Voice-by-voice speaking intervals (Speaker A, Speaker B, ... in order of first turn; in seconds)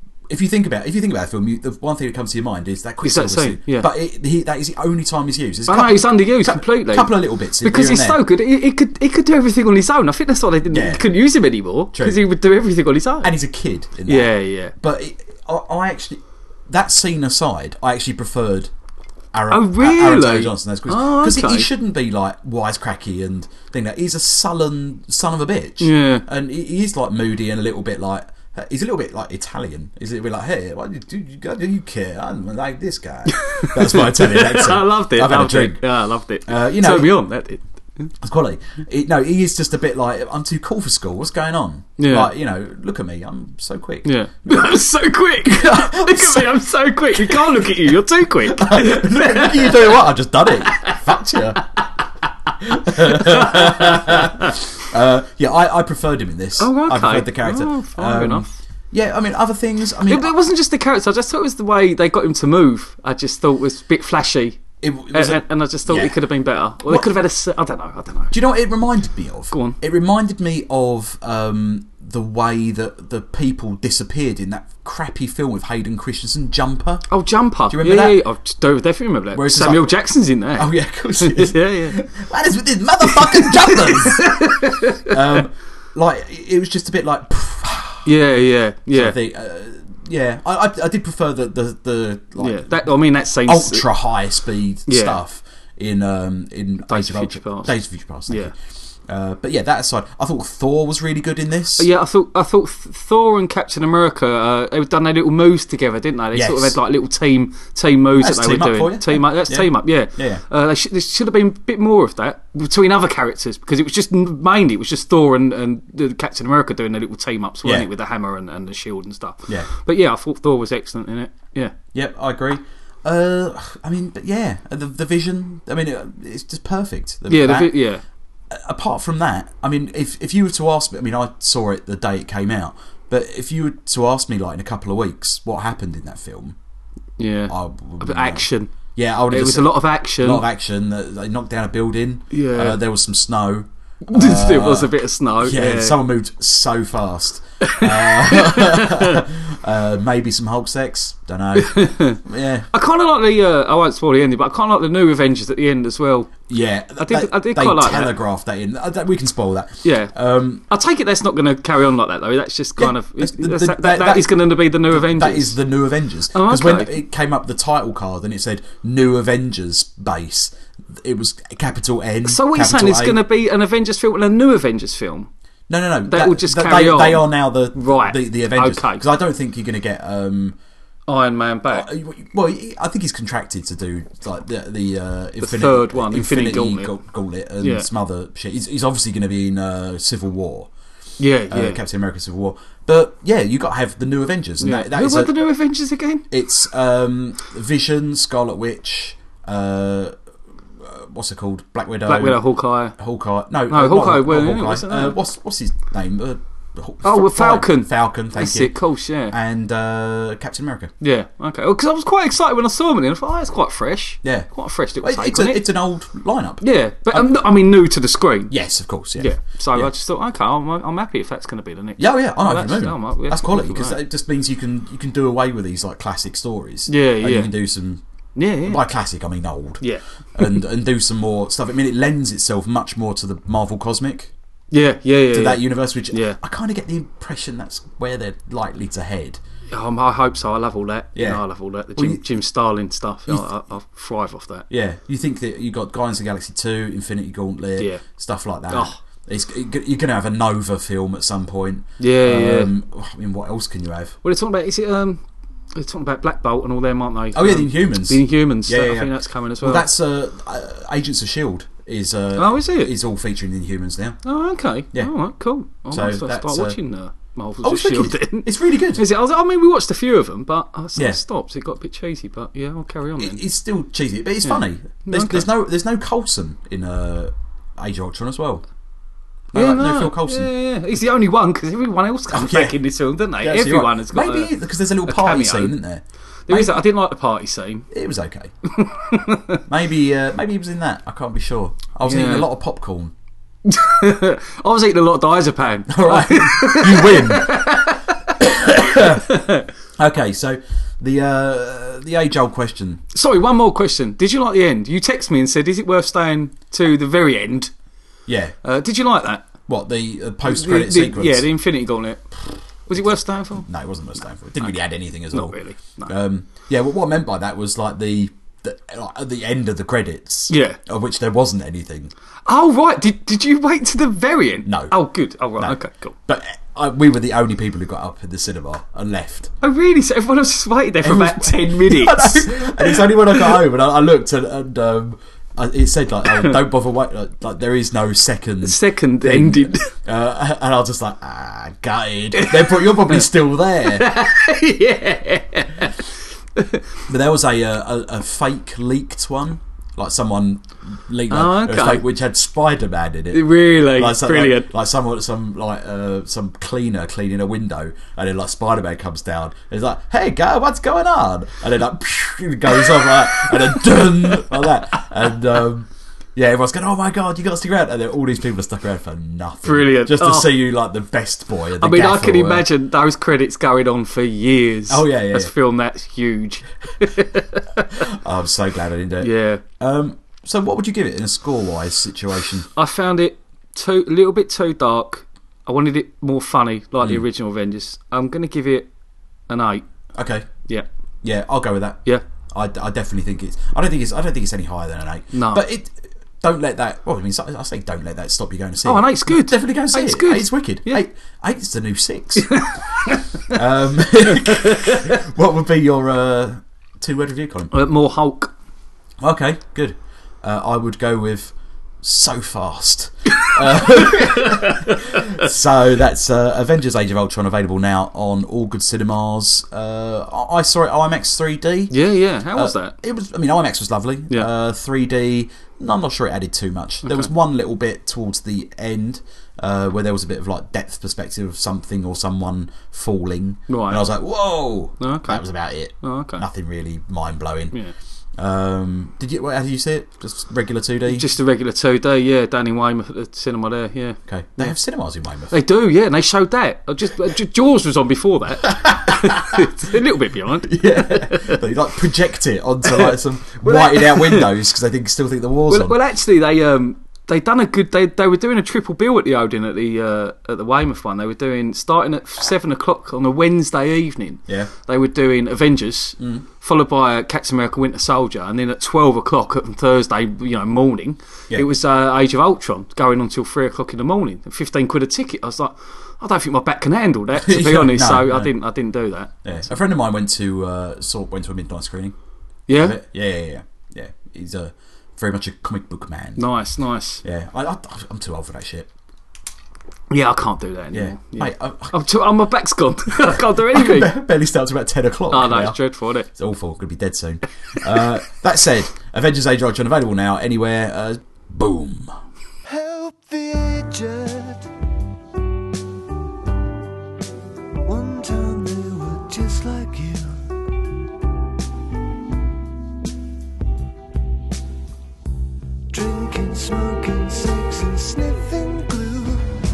Speaker A: 0.3-8.2, 10.7-11.1, 11.9-12.2, 13.2-18.7, 19.3-35.8, 36.5-37.2, 38.2-44.7, 45.4-46.6, 47.1-47.8, 48.5-51.6, 52.6-60.3, 64.8-66.2, 66.9-67.1, 68.3-77.0, 77.7-78.2, 79.3-80.0, 80.6-88.1, 88.9-92.9, 93.5-98.5, 99.1-101.9, 106.3-106.8, 108.2-110.4, 121.9-127.8, 128.5-136.6, 137.5-152.7, 156.5-160.6, 162.8-164.4, 164.9-173.2, 175.7-180.6, 181.7-190.7, 191.5-195.4, 196.3-200.2, 200.8-202.4, 203.0-208.7, 209.3-210.9, 214.2-214.5, 215.0-217.3, 218.5-219.9, 222.0-228.0, 228.7-229.8, 230.4-234.3, 235.3-239.4, 241.2-241.4, 242.0-242.2, 244.7-254.2, 257.3-264.2, 265.9-266.8, 267.6-269.1, 273.2-278.6, 279.5-280.5, 282.3-282.8, 283.4-286.9, 287.9-288.5, 289.7-293.1, 295.9-297.6, 298.4-299.4, 300.0-303.0, 308.3-308.6, 309.7-311.5, 313.6-322.1, 324.6-325.0, 325.6-329.5, 331.0-344.1, 347.1-372.7, 374.9-375.5, 378.0-382.7, 390.1-390.5, 391.2-402.8, 403.5-407.7, 409.2-421.9, 422.5-437.8, 438.4-441.3, 444.3-445.6, 448.7-449.7, 450.6-456.0, 466.2-466.4, 477.3-478.5, 479.4-482.1, 482.7-486.4, 487.2-488.9, 490.9-491.9, 493.3-495.8, 496.3-502.1
Speaker B: 3.0-3.9, 5.7-13.3, 14.1-14.7, 19.5-21.7, 25.8-26.2, 33.3-38.1, 42.0-42.3, 44.0-51.0, 52.5-54.6, 56.6-58.5, 60.1-68.4, 69.5-69.8, 77.1-82.0, 83.0-85.4, 88.0-89.2, 92.4-93.9, 94.9-95.2, 96.9-97.7, 101.8-121.7, 127.3-128.0, 137.2-138.7, 139.3-140.4, 142.3-142.8, 144.1-146.0, 147.6-149.2, 151.6-152.2, 152.7-156.4, 157.0-158.2, 159.8-160.1, 160.7-165.6, 166.3-167.0, 172.2-175.3, 176.1-179.1, 181.1-181.9, 185.4-186.9, 187.6-187.9, 191.2-191.8, 194.6-196.3, 202.1-203.0, 203.7-205.2, 207.0-209.3, 211.0-215.6, 216.6-218.5, 219.2-224.0, 226.9-227.5, 228.4-228.8, 229.8-230.6, 234.7-236.4, 239.7-244.7, 247.8-248.0, 248.7-249.0, 252.0-252.7, 254.2-255.2, 255.7-259.9, 262.4-262.9, 264.2-273.4, 274.4-275.5, 279.5-284.5, 285.1-285.8, 286.5-287.9, 288.6-289.6, 292.1-292.5, 293.7-299.7, 303.1-307.7, 308.6-309.5, 310.5-312.3, 312.9-313.7, 315.3-316.1, 320.5-320.8, 322.5-326.2, 329.6-333.6, 336.3-336.6, 338.6-339.9, 342.3-343.3, 343.8-347.0, 351.3-352.1, 353.3-354.7, 362.7-365.1, 369.6-370.5, 371.8-378.1, 379.2-379.6, 382.7-388.9, 389.5-389.9, 395.3-395.6, 398.9-401.0, 402.4-403.6, 404.3-405.2, 407.7-408.5, 413.3-415.5, 421.9-422.9, 427.0-427.3, 433.7-434.1, 435.0-435.4, 436.0-436.5, 441.1-444.7, 445.5-451.6, 452.9-454.5, 455.7-479.4, 482.7-483.0, 486.4-487.2, 490.1-494.1, 495.3-496.3
Speaker C: 502.6-504.7, 507.9-510.5, 515.9-519.5